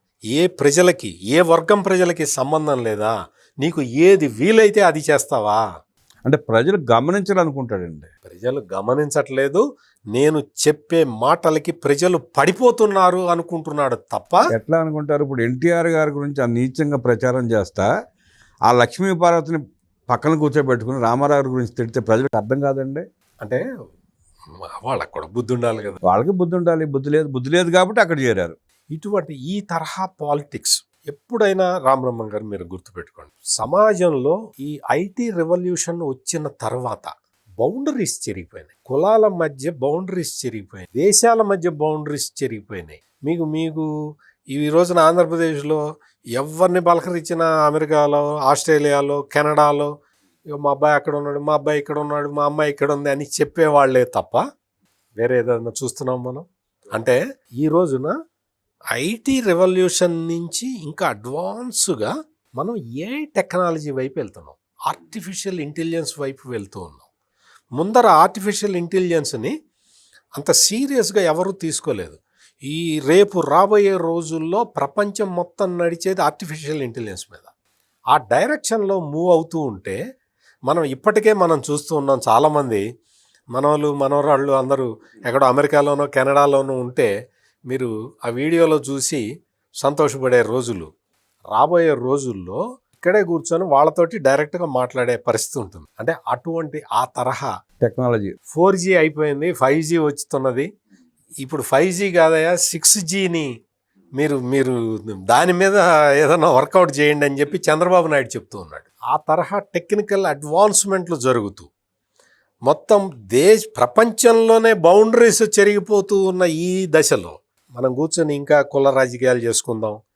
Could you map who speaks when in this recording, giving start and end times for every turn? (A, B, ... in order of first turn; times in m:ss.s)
0:00.3-0:05.6 A
0:06.2-0:08.1 B
0:08.2-0:09.6 A
0:10.1-0:14.4 A
0:14.5-0:17.9 B
0:18.7-0:23.0 B
0:24.5-0:26.0 A
0:26.0-0:28.5 B
0:28.9-0:37.1 A
0:37.6-0:43.9 A
0:44.5-0:45.8 A
0:46.4-0:49.9 A
0:50.5-0:54.4 A
0:55.2-0:58.1 A
0:58.9-1:07.0 A
1:07.8-1:09.5 A
1:10.4-1:17.5 A
1:18.1-1:20.0 A
1:20.7-1:22.8 A
1:23.5-1:27.1 A
1:27.7-1:29.2 A
1:29.8-1:30.9 A
1:31.5-1:37.5 A
1:37.8-1:38.4 B
1:38.5-1:40.7 A
1:41.4-1:43.5 A
1:44.2-1:51.7 A
1:52.7-2:00.0 A